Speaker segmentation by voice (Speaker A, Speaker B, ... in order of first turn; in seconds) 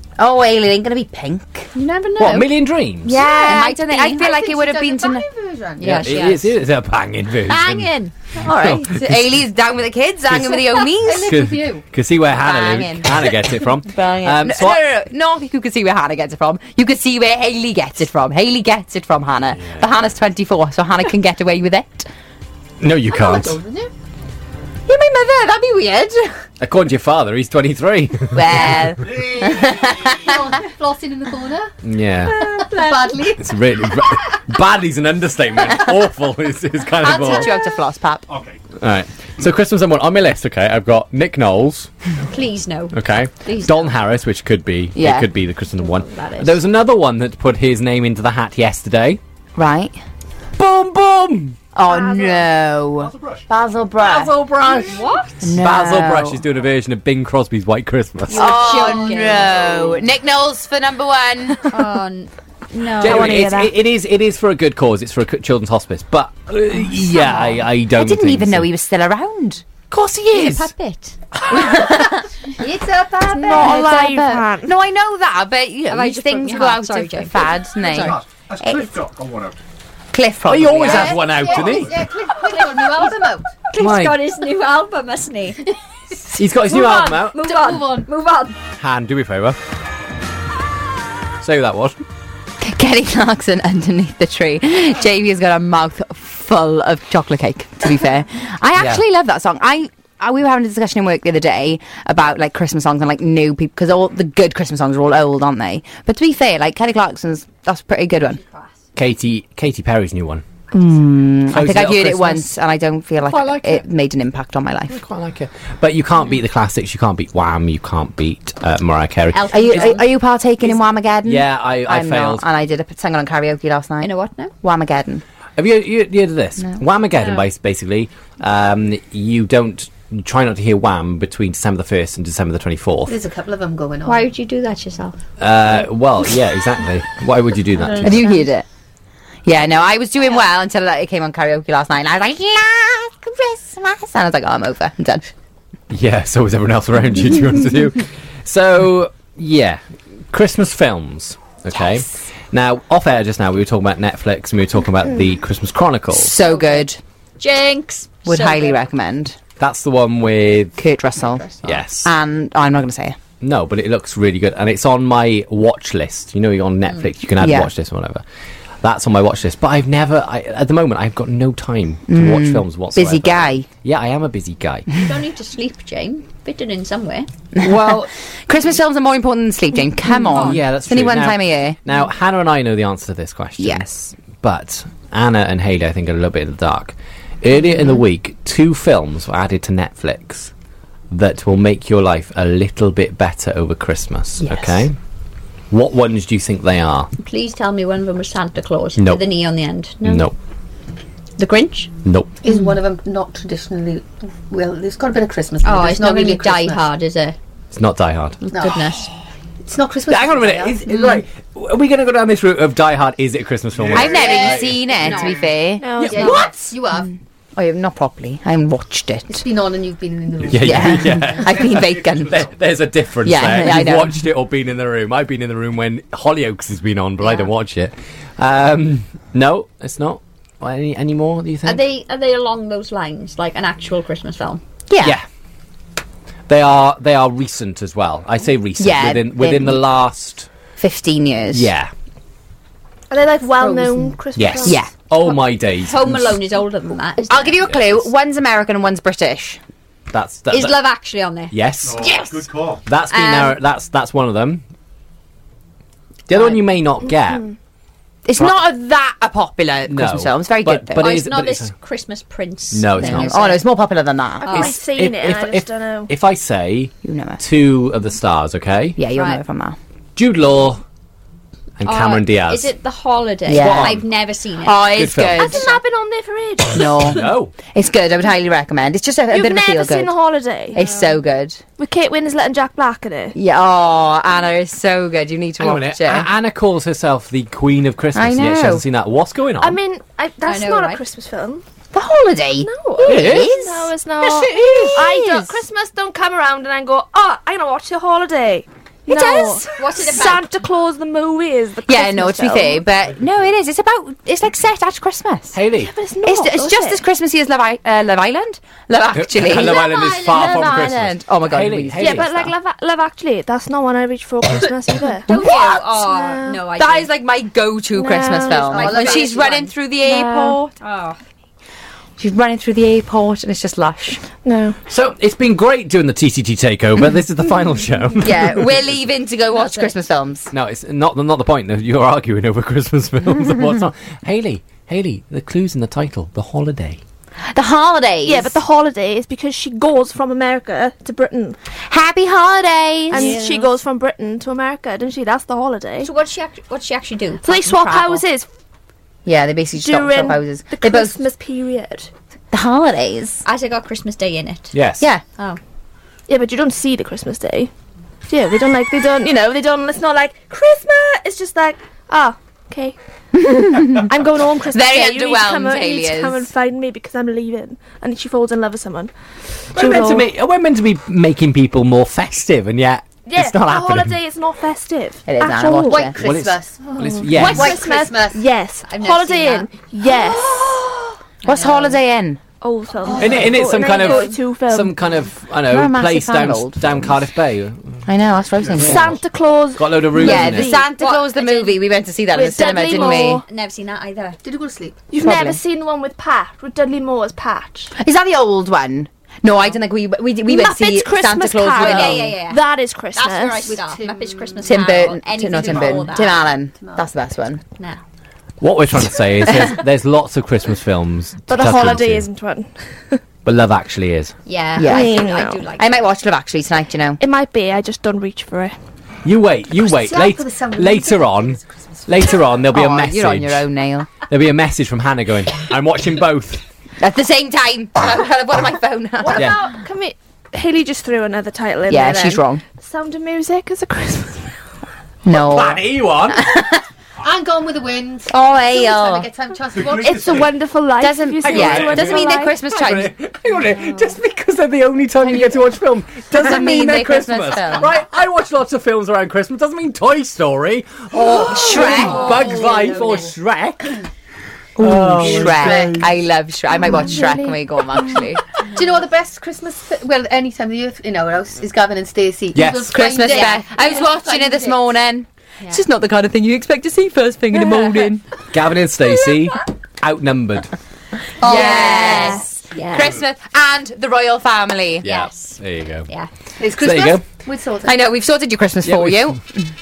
Speaker A: 0.2-1.7, 3.0-5.2, 7.5-11.4, 12.3-22.1, 24.9-26.3, 28.3-30.2, 37.0-38.2, 44.9-45.3, 49.5-50.0, 51.7-54.4, 55.4-56.4, 58.3-61.7, 67.0-69.6, 71.5-72.2, 73.3-78.9, 80.1-81.4, 92.6-108.4, 110.7-115.0, 119.5-124.1, 124.6-125.2, 138.0-138.7, 139.4-145.3, 156.1-157.0, 158.2-159.4, 160.8-163.2, 167.4-167.7, 172.1-173.7, 177.5-181.8, 183.6-184.1, 194.4-194.8, 213.9-216.4, 217.6-219.4, 220.6-222.4, 223.2-224.1, 234.9-235.2, 238.8-239.8, 240.8-241.7, 244.6-244.9, 247.3-249.6, 258.2-261.1, 263.0-264.6, 267.0-267.4, 269.0-269.8, 273.5-274.0, 274.6-275.8, 276.7-280.1, 280.7-281.6, 283.3-286.3, 288.1-288.8, 291.9-295.6, 299.1-299.6, 301.9-305.6, 306.2-312.4, 315.3-315.8, 316.7-320.7, 322.2-324.2, 328.2-330.5, 337.5-338.6, 341.9-343.4, 349.2-351.2, 352.5-353.4, 363.3-364.1, 364.7-366.5, 375.2-376.2, 380.1-380.9, 381.4-382.4, 385.6-387.1, 388.1-389.2, 390.1-393.4, 395.2-395.6, 398.0-402.3, 404.6-407.6, 414.8-417.2, 422.7-424.1, 427.0-429.6, 431.9-432.6, 435.2-436.8, 438.3-439.3, 441.0-443.1, 445.2-445.6, 446.3-447.9, 451.3-452.4, 454.8-458.4, 462.9-468.2, 471.4-475.0, 477.8-479.7
Speaker B: 1.7-2.5, 3.0-4.3, 5.8-6.5, 42.3-43.9, 45.8-46.6, 54.8-55.5, 58.3-60.0, 61.7-63.5, 70.3-71.2, 75.9-77.5, 82.4-85.6, 86.7-88.5, 119.3-120.1, 124.0-124.5, 127.2-127.5, 134.0-135.2, 156.4-156.9, 157.4-158.8, 161.3-161.5, 175.0-177.3, 197.2-200.3, 201.4-201.9, 205.6-207.3, 208.5-209.0, 216.1-216.4, 231.6-234.6, 245.8-247.6, 250.5-251.5, 253.1-253.6, 261.0-263.6, 264.4-264.7, 269.1-269.4, 271.8-275.0, 280.8-281.1, 290.4-291.0, 299.1-300.5, 309.5-310.7, 315.2-317.1, 318.7-319.7, 320.8-321.2, 329.6-329.9, 343.1-343.7, 346.0-348.2, 353.4-354.7, 378.9-379.7, 381.4-382.0, 390.3-391.8, 392.5-394.4, 401.7-402.6, 403.1-406.5, 414.4-416.0, 451.7-452.9, 463.3-463.6, 467.5-468.1, 469.1-469.6, 471.4-473.2, 475.0-476.3
Speaker C: 2.2-3.2, 5.8-9.4, 10.3-14.9, 19.6-19.9, 22.8-23.6, 26.6-29.0, 31.8-32.5, 33.4-37.5, 38.8-41.9, 42.9-49.2, 50.6-51.6, 54.0-55.0, 55.5-58.7, 63.0-68.7, 69.9-70.7, 80.4-81.9, 83.7-84.2, 86.3-87.5, 88.8-89.6, 91.4-92.0, 98.8-99.0, 109.0-110.4, 111.5-112.5, 113.2-113.8, 114.9-119.9, 121.2-122.4, 125.6-133.1, 135.4-138.3, 145.9-156.4, 159.6-160.8, 161.6-162.1, 163.4-168.2, 168.8-174.9, 177.6-178.1, 180.3-190.5, 191.1-194.9, 195.7-197.1, 199.0-199.2, 200.0-200.3, 202.0-202.3, 207.7-208.4, 210.1-214.9, 216.0-216.5, 220.5-231.8, 235.0-235.2, 236.5-240.5, 241.5-241.9, 244.3-246.4, 247.7-248.0, 250.1-250.8, 251.5-252.2, 252.8-254.6, 256.3-257.5, 259.9-261.7, 262.7-263.5, 264.5-269.0, 270.1-270.8, 271.8-272.7, 273.5-274.0, 274.9-275.6, 277.0-277.5, 285.6-289.8, 293.0-293.5, 294.3-295.0, 305.5-305.9, 309.1-312.5, 324.9-329.0, 330.5-337.0, 354.7-355.1, 369.7-374.2, 376.2-377.8, 383.2-388.0, 388.6-389.2, 389.7-390.7, 408.6-412.3, 413.4-414.3, 419.2-423.7, 424.2-426.6, 435.3-436.6, 441.4-453.9, 454.8-456.1, 462.5-463.0, 468.5-470.7, 475.0-476.1, 476.8-477.2, 478.8-479.4
Speaker D: 4.1-6.2, 10.9-11.8, 23.1-23.9, 30.1-31.7, 32.4-33.5, 37.2-37.5, 58.6-59.6, 72.6-73.7, 80.8-83.5, 86.7-88.1, 133.1-134.3, 137.9-138.3, 202.4-206.8, 208.5-208.9, 209.7-211.1, 214.2-215.3, 216.0-217.1, 219.3-221.5, 318.6-319.4, 375.8-378.4, 383.1-383.6, 394.4-395.1, 403.7-406.2, 406.8-407.1, 419.8-422.3, 437.2-440.4, 451.4-453.3, 455.0-456.1, 456.9-457.5, 458.7-464.9, 471.4-472.3, 476.6-478.0
Speaker E: 29.0-30.3, 38.3-38.6, 53.0-53.5, 77.8-79.6, 81.6-81.9, 213.7-215.3, 220.4-222.5, 251.8-252.8, 439.7-440.5
Speaker F: 62.9-63.7, 73.3-74.7, 215.8-216.4, 243.1-244.8, 264.4-266.1, 275.4-277.0, 279.3-280.8, 281.8-283.4, 289.6-291.6, 292.6-302.8, 305.8-307.0, 312.0-315.3, 317.9-319.1, 320.0-320.7, 324.4-324.8, 338.2-341.6, 343.1-346.1, 347.4-348.5, 349.7-352.1, 356.3-357.7, 358.3-362.9, 363.9-370.2, 373.2-376.1, 377.3-380.6, 382.6-384.9, 388.8-390.8, 392.3-393.4, 395.1-397.9, 400.4-403.8, 411.5-413.2, 414.8-415.6, 417.2-418.8, 429.2-434.6, 439.8-442.6, 471.8-472.4